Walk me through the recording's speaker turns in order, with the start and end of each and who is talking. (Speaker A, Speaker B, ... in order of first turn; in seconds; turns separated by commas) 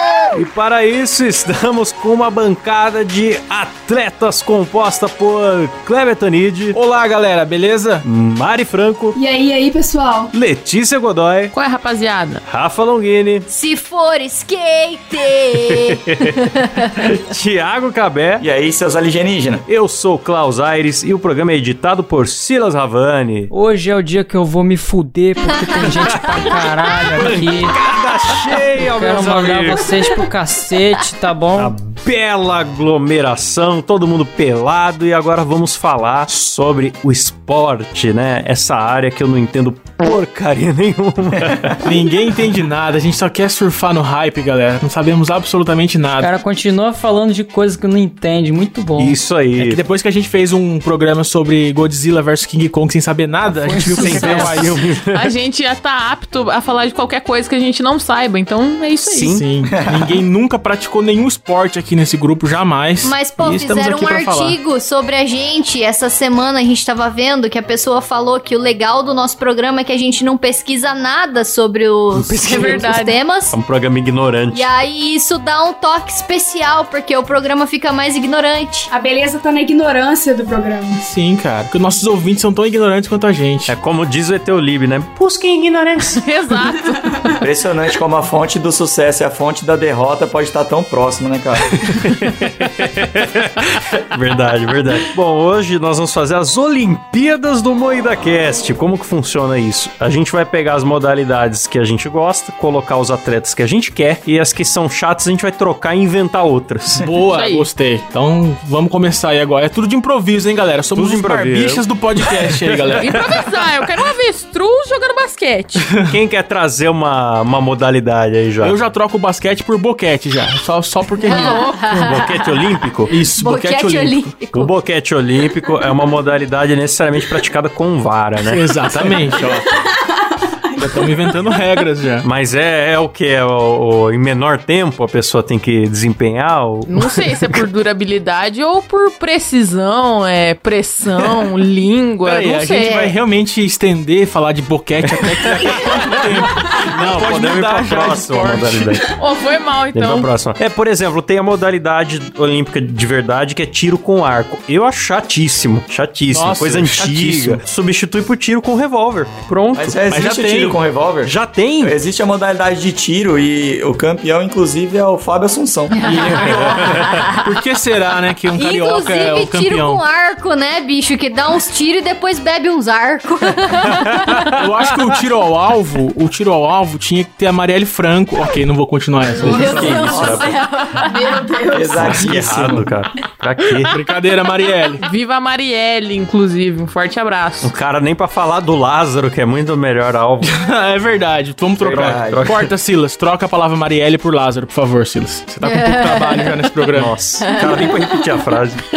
Speaker A: 0.3-6.8, Speaker B: 6.7-8.1, Speaker A: 8.0-9.2, Speaker C: 9.2-10.3, Speaker A: 10.3-11.5, Speaker D: 11.5-12.4, Speaker A: 12.5-13.5, Speaker E: 13.5-16.9, Speaker A: 15.6-16.4, Speaker A: 16.9-18.4, Speaker F: 18.4-19.6, Speaker A: 19.7-23.5, Speaker G: 23.5-31.8, Speaker A: 26.1-29.9, Speaker A: 31.6-41.9, Speaker B: 41.8-46.3, Speaker G: 46.2-49.2, Speaker A: 49.0-49.8, Speaker B: 49.6-54.8, Speaker G: 53.5-54.7, Speaker A: 53.8-55.2, Speaker D: 55.1-59.3, Speaker A: 59.0-59.5, Speaker B: 59.2-64.6, Speaker F: 59.6-60.2, Speaker E: 63.0-73.6, Speaker A: 72.1-72.9, Speaker D: 72.5-73.2, Speaker A: 73.5-74.7, Speaker E: 74.5-78.9, Speaker C: 78.9-81.1, Speaker B: 81.0-83.7, Speaker A: 83.7-86.2, Speaker D: 86.2-87.3, Speaker F: 87.4-91.8, Speaker A: 91.9-107.1, Speaker B: 107.0-113.1, Speaker D: 107.3-107.7, Speaker A: 110.9-113.8, Speaker D: 113.0-115.9, Speaker B: 115.9-116.1, Speaker A: 116.0-118.8, Speaker B: 118.6-122.0, Speaker E: 121.3-122.7, Speaker D: 121.3-121.8, Speaker A: 121.9-123.2, Speaker B: 123.1-124.3, Speaker E: 123.4-124.7, Speaker A: 124.5-128.7, Speaker B: 128.4-129.7, Speaker C: 129.7-131.5, Speaker B: 130.8-132.2, Speaker A: 132.2-137.6, Speaker D: 136.9-143.2, Speaker B: 142.2-149.0, Speaker A: 145.1-149.0, Speaker D: 149.1-150.3, Speaker A: 149.9-160.3, Speaker B: 156.3-157.6, Speaker F: 159.7-166.9, Speaker B: 160.1-160.8, Speaker A: 161.2-161.9, Speaker E: 165.9-167.3, Speaker B: 166.2-166.8, Speaker A: 166.2-167.3, Speaker B: 167.3-170.0, Speaker E: 168.6-174.5, Speaker A: 173.9-174.7, Speaker B: 174.6-179.9, Speaker A: 179.4-180.5, Speaker F: 179.4-180.4, Speaker C: 179.4-182.2, Speaker E: 179.5-181.5, Speaker F: 181.7-182.9, Speaker A: 182.0-184.0, Speaker B: 183.8-185.1, Speaker D: 185.0-187.7, Speaker A: 187.6-190.7, Speaker B: 190.4-197.1, Speaker F: 191.8-192.5, Speaker A: 192.2-192.7, Speaker E: 195.6-196.5, Speaker A: 196.9-198.8, Speaker E: 197.4-198.2